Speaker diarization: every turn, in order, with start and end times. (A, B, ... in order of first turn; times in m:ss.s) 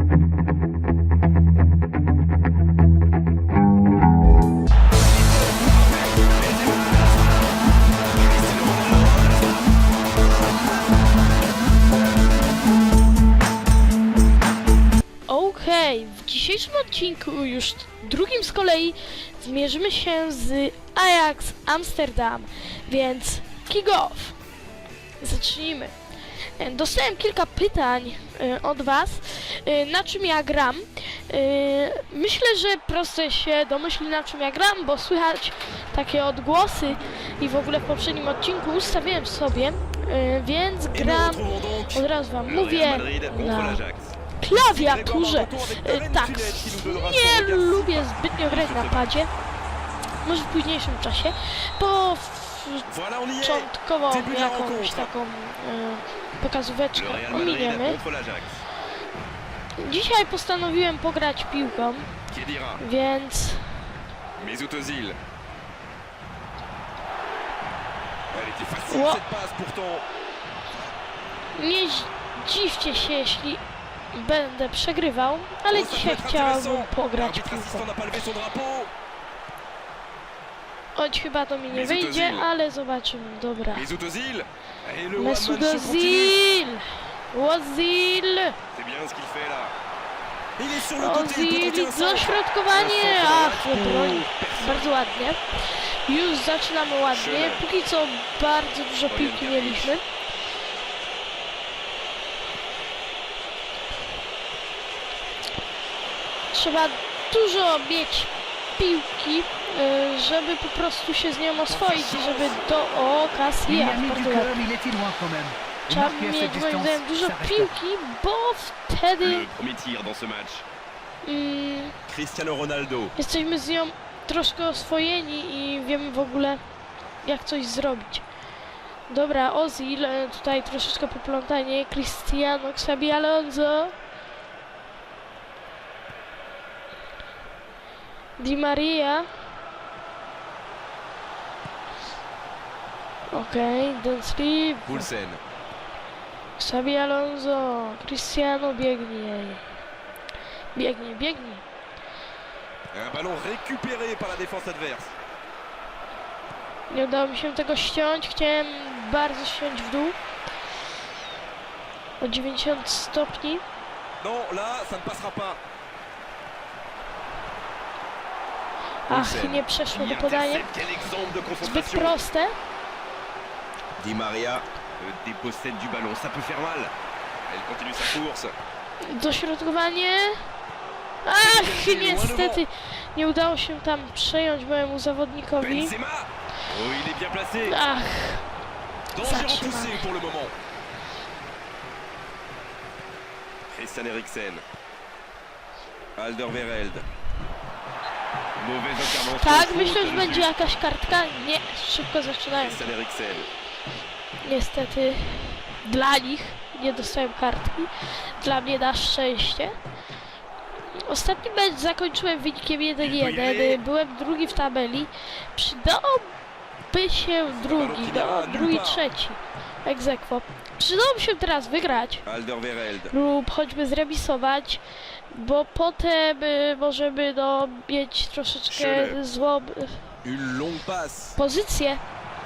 0:06.1-0:06.8 A
0:08.2-0:09.6 A
0:15.3-0:24.4 B
0:25.2-0:25.9 B
0:26.6-0:43.8 B
0:40.9-0:49.1 A
0:44.4-0:49.3 B
0:50.2-0:52.9 B
0:52.9-0:55.1 A
0:53.4-0:58.0 B
0:56.9-0:58.6 A
0:59.8-1:02.1 B
1:02.3-1:02.8 A
1:02.8-1:03.7 B
1:04.4-1:05.2 A
1:08.3-1:10.0 A
1:08.9-1:09.2 B
1:11.6-1:13.6 B
1:14.1-1:17.9 B
1:15.7-1:18.9 A
1:21.0-1:23.9 B
1:21.7-1:22.5 A
1:23.7-1:26.4 A
1:25.2-1:28.6 B
1:28.7-1:29.7 A
1:30.6-1:34.9 A
1:30.9-1:40.1 B
1:37.1-1:37.6 A
1:39.1-1:40.0 A
1:46.5-1:54.6 B
1:51.7-1:52.5 A
1:52.0-1:52.3 C
1:53.6-1:57.8 C
1:55.9-1:59.5 B
1:59.2-2:00.6 A
2:01.2-2:02.0 B
2:02.1-2:03.1 A
2:03.2-2:06.6 B
2:07.2-2:08.2 B
2:09.1-2:13.9 B
2:18.4-2:19.3 B
2:23.3-2:25.1 B
2:24.9-2:25.4 A
2:26.6-2:29.6 B
2:30.8-2:31.6 B
2:32.9-2:35.1 A
2:36.9-2:40.2 B
2:42.2-2:43.6 B
2:44.2-2:45.6 A
2:49.1-2:50.7 B
2:49.1-2:52.2 A
2:51.6-2:52.5 B
2:54.0-2:56.9 A
2:57.5-2:58.5 A
2:59.0-3:00.4 B
3:01.2-3:05.9 B
3:01.4-3:02.6 A
3:05.6-3:07.8 A
3:07.6-3:08.5 B
3:09.1-3:10.5 A
3:09.2-3:10.0 B
3:13.7-3:14.6 A
3:16.2-3:17.1 A
3:18.6-3:20.5 A
3:19.1-3:22.9 B
3:22.5-3:23.5 A
3:24.4-3:29.8 B
3:31.0-3:36.3 B
3:33.0-3:33.8 A
3:36.9-3:42.2 B
3:37.5-3:39.0 A
3:42.2-3:43.1 A
3:43.1-3:50.0 B
3:48.7-3:49.2 A
3:50.2-3:51.4 A
3:51.4-3:52.0 B